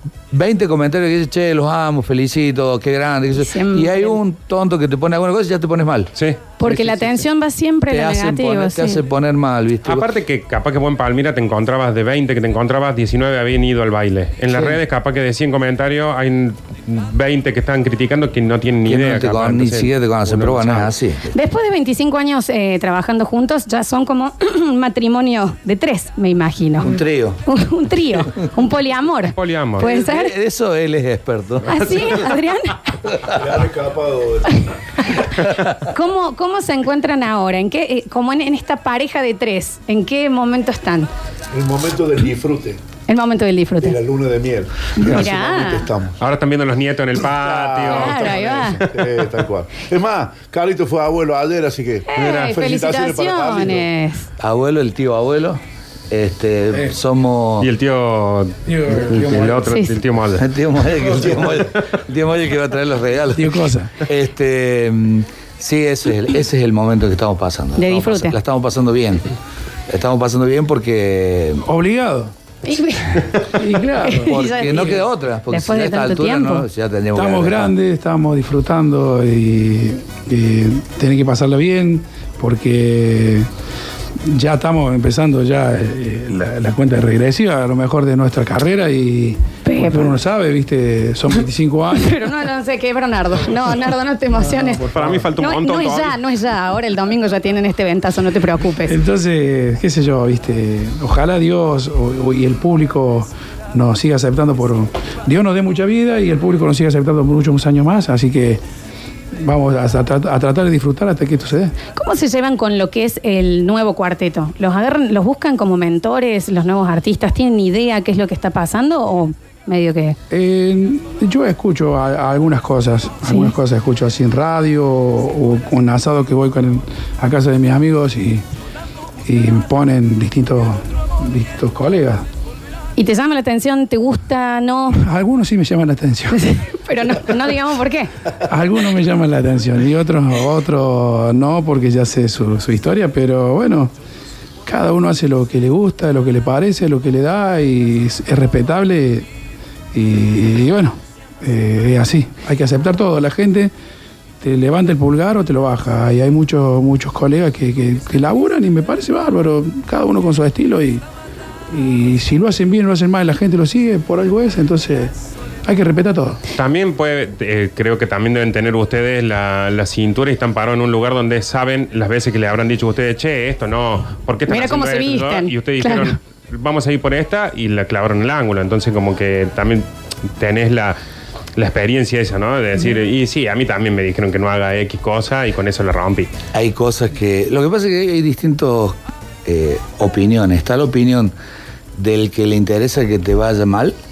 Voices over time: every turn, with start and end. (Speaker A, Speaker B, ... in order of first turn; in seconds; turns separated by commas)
Speaker A: 0.3-7.2, Speaker B: 3.3-4.2, Speaker B: 6.6-9.0, Speaker A: 7.9-10.0, Speaker C: 9.8-20.9, Speaker A: 14.5-14.8, Speaker A: 18.8-21.3, Speaker B: 21.3-26.9, Speaker A: 26.8-27.4, Speaker B: 27.4-30.3, Speaker C: 29.3-29.9, Speaker A: 29.8-32.3, Speaker B: 31.6-32.9, Speaker D: 33.3-34.6, Speaker B: 35.0-41.1, Speaker A: 35.4-35.8, Speaker D: 41.5-42.8, Speaker B: 43.1-44.0, Speaker D: 43.8-46.1, Speaker B: 45.0-45.9, Speaker C: 46.2-49.1, Speaker D: 47.2-53.9, Speaker B: 47.9-48.8, Speaker B: 52.0-54.3, Speaker A: 54.4-57.7, Speaker C: 57.6-60.4, Speaker E: 58.6-59.7, Speaker B: 59.7-59.9, Speaker A: 60.4-69.3, Speaker E: 63.3-63.9, Speaker B: 67.8-68.3, Speaker A: 69.9-71.6, Speaker E: 71.6-72.3, Speaker B: 72.6-73.3, Speaker E: 73.5-75.0, Speaker B: 74.0-76.7, Speaker A: 74.2-77.7, Speaker E: 77.1-83.5, Speaker E: 84.2-92.3, Speaker B: 89.6-90.0, Speaker B: 91.9-94.8, Speaker E: 94.3-95.3, Speaker C: 94.9-96.2, Speaker B: 95.4-99.0, Speaker E: 98.8-108.6, Speaker E: 109.3-111.7, Speaker B: 111.9-120.2, Speaker E: 120.3-128.4, Speaker B: 123.3-123.5, Speaker E: 129.2-132.2, Speaker B: 133.0-135.0, Speaker E: 134.9-136.4, Speaker B: 136.3-138.1, Speaker E: 138.4-143.9, Speaker E: 144.6-149.3, Speaker E: 149.9-153.7, Speaker E: 154.4-161.0, Speaker E: 161.7-165.1, Speaker E: 165.7-166.4, Speaker C: 166.6-180.9, Speaker B: 174.5-176.2, Speaker C: 181.6-186.3, Speaker A: 186.5-191.3, Speaker A: 192.0-193.9